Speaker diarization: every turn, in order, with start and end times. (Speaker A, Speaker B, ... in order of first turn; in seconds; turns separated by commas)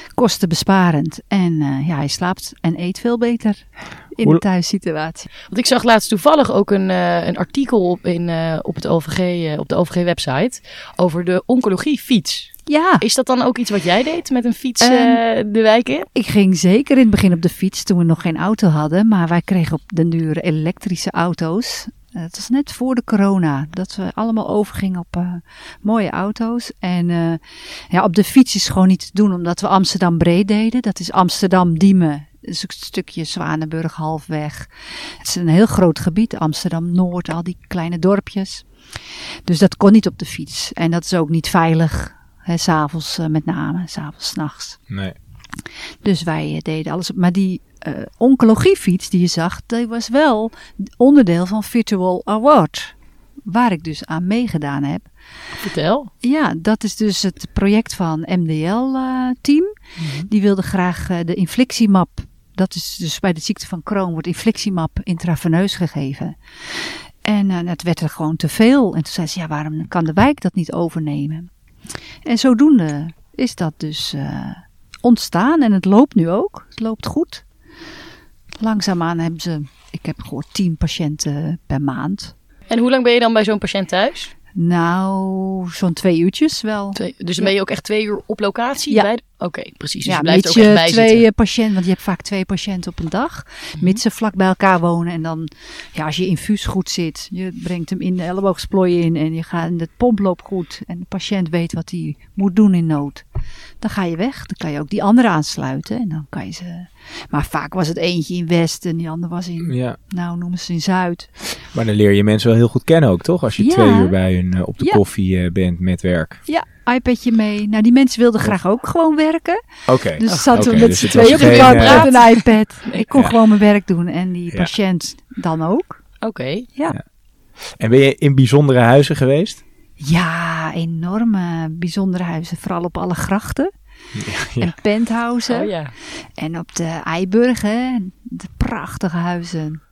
Speaker A: 0.1-5.3, Speaker B: 5.5-16.1, Speaker A: 12.7-13.1, Speaker A: 14.8-15.2, Speaker A: 16.1-44.8, Speaker C: 44.9-45.2, Speaker A: 46.0-55.1, Speaker B: 55.6-56.1, Speaker A: 56.2-71.5, Speaker A: 72.2-77.5, Speaker A: 78.6-82.3, Speaker B: 82.7-84.3, Speaker A: 84.5-87.5, Speaker B: 87.0-91.3, Speaker A: 90.0-103.3, Speaker A: 103.8-111.3, Speaker C: 109.6-110.0, Speaker C: 111.6-116.4, Speaker A: 113.6-114.2, Speaker A: 116.5-119.6, Speaker C: 119.9-122.1, Speaker A: 120.2-126.0, Speaker B: 120.3-123.0, Speaker B: 126.2-126.7, Speaker C: 127.8-129.6, Speaker A: 130.0-133.7, Speaker C: 134.2-134.7, Speaker A: 134.6-135.7, Speaker B: 135.5-135.9, Speaker A: 136.4-139.8